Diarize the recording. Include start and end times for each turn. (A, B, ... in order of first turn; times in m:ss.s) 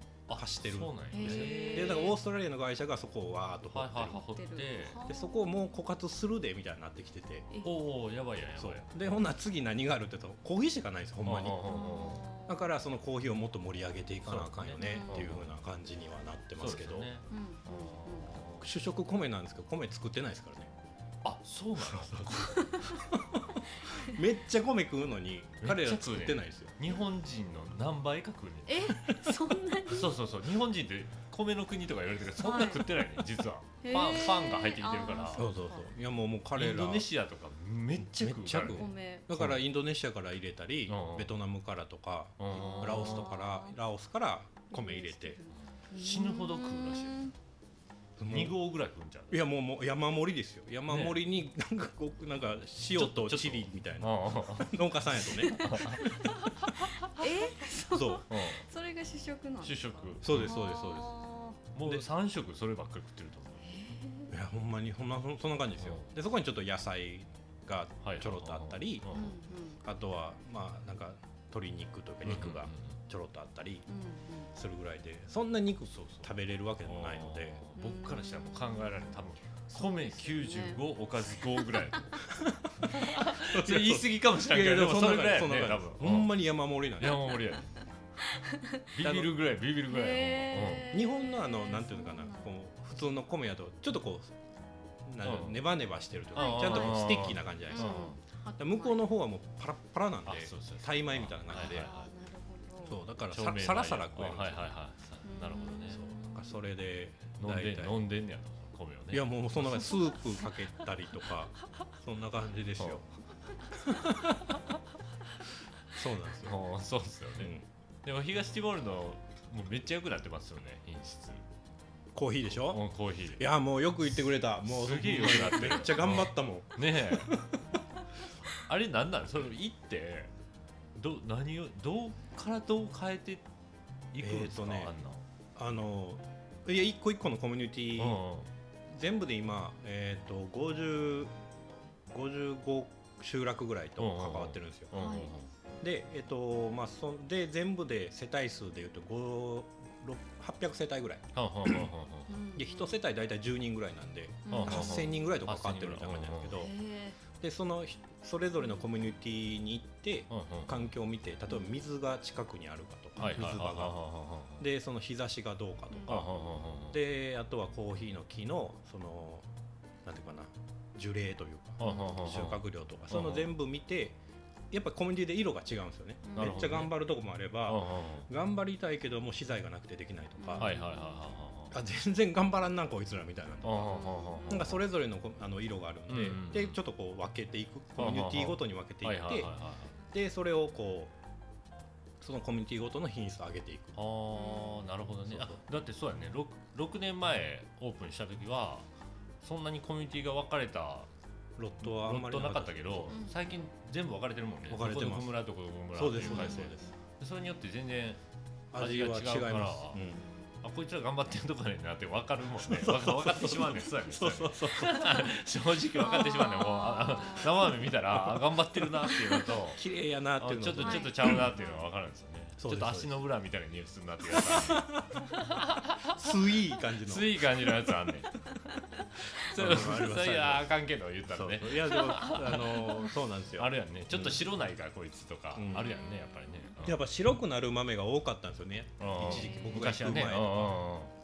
0:00.3-0:02.1 A
0:00.3-0:04.2 B
0:01.1-0:02.2 C
0:03.7-0:05.0 A
0:04.2-0:05.7 C
0:05.0-0:07.5 B
0:07.6-0:09.2 A
0:08.6-0:11.8 B
0:11.2-0:12.2 A
0:11.6-0:12.7 C
0:12.5-0:17.1 B
0:14.2-0:15.5 A
0:14.8-0:15.3 C
0:16.6-0:18.7 A
0:17.3-0:18.4 C
0:18.6-0:20.7 B
0:21.2-0:22.8 A
0:21.8-0:26.7 B
0:22.5-0:23.0 C
0:23.9-0:24.2 C
0:25.6-0:29.1 A
0:28.7-0:30.1 C
0:29.9-0:35.5 A
0:32.4-0:33.0 C
0:33.8-0:35.9 C
0:35.3-0:37.1 B
0:36.5-0:39.6 A
0:38.0-0:45.4 B
0:38.6-0:39.3 C
0:40.9-0:41.3 A
0:42.4-0:43.3 A
0:42.5-0:43.8 C
0:44.7-0:47.3 C
0:45.9-0:47.3 A
0:48.2-0:48.6 B
0:48.3-0:49.4 A
0:49.3-0:56.1 B
0:50.9-0:51.2 A
0:52.9-0:56.2 A
0:55.6-0:56.2 C
0:57.0-1:01.6 C
0:57.9-0:58.2 B
0:58.3-0:58.6 A
0:59.6-1:00.7 A
1:00.2-1:01.1 B
1:01.7-1:03.7 A
1:03.6-1:04.4 C
1:04.3-1:09.1 B
1:05.8-1:06.2 A
1:08.0-1:09.4 A
1:09.1-1:09.8 C
1:09.8-1:13.9 B
1:12.2-1:13.0 A
1:13.9-1:14.5 C
1:14.5-1:17.6 B
1:15.9-1:16.3 A
1:16.8-1:26.4 A
1:17.8-1:19.2 C
1:19.7-1:21.7 C
1:22.3-1:27.4 B
1:27.0-1:27.8 A
1:28.3-1:28.8 C
1:28.9-1:30.9 A
1:29.0-1:29.3 B
1:29.9-1:32.5 C
1:30.9-1:34.3 B
1:35.0-1:41.9 B
1:35.2-1:35.6 A
1:36.3-1:39.0 C
1:36.4-1:38.2 A
1:40.2-1:42.0 A
1:41.5-1:43.0 C
1:42.8-1:44.7 B
1:43.3-1:46.1 A
1:45.2-1:46.6 C
1:45.9-1:48.0 B
1:47.4-1:50.0 A
1:49.1-1:53.0 B
1:53.7-1:54.5 B
1:55.9-1:56.6 B
1:56.4-2:01.4 A
1:57.4-1:57.6 B
2:02.1-2:02.8 B
2:02.5-2:03.5 A
2:03.3-2:07.6 B
2:04.6-2:07.4 A
2:08.5-2:10.3 A
2:10.9-2:13.4 A
2:14.1-2:15.2 A
2:14.2-2:14.9 B
2:15.6-2:18.2 B
2:18.0-2:18.5 A
2:18.9-2:21.3 B
2:22.1-2:24.9 B
2:24.0-2:25.5 A
2:24.9-2:25.3 C
2:25.8-2:31.9 B
2:31.3-2:32.3 A
2:32.3-2:33.0 C
2:32.5-2:36.7 B
2:34.4-2:35.2 C
2:34.5-2:36.6 A
2:36.5-2:37.2 C
2:37.4-2:44.0 B
2:40.3-2:40.9 A
2:41.5-2:41.8 C
2:43.2-2:44.6 A
2:44.6-2:46.3 B
2:45.9-2:46.5 C
2:46.1-2:47.0 A
2:46.9-2:49.5 B
2:50.0-2:54.2 B
2:51.8-2:53.5 A
2:51.8-2:52.4 C
2:54.7-3:00.7 B
2:56.2-2:56.7 C
2:56.4-2:57.0 A
2:57.6-2:58.3 A
3:00.4-3:01.2 C
3:00.6-3:01.8 A
3:01.7-3:09.5 B
3:03.6-3:04.8 A
3:03.8-3:04.6 C
3:06.1-3:06.8 A
3:08.0-3:09.9 A
3:10.1-3:11.1 B
3:12.2-3:14.0 B
3:14.0-3:18.9 A
3:14.3-3:14.9 C
3:15.3-3:15.6 B
3:19.4-3:21.1 A
3:21.6-3:23.2 B
3:21.8-3:28.2 A
3:23.1-3:23.5 C
3:24.7-3:25.3 B
3:25.9-3:26.9 B
3:26.2-3:26.9 C
3:28.7-3:30.2 B
3:28.8-3:30.0 A
3:30.0-3:30.5 C
3:30.6-3:39.8 A
3:32.6-3:35.2 B
3:36.0-3:37.9 C
3:38.2-3:38.8 B
3:39.7-3:41.5 B
3:40.4-3:48.4 A
3:40.8-3:41.9 C
3:42.6-3:43.2 B
3:44.3-3:45.2 B
3:46.1-3:47.7 B
3:49.3-3:57.0 A
3:49.3-3:50.7 B
3:51.3-3:54.4 B
3:55.5-3:55.9 B
3:56.8-4:00.8 B
3:59.0-4:01.1 A
3:59.2-3:59.9 C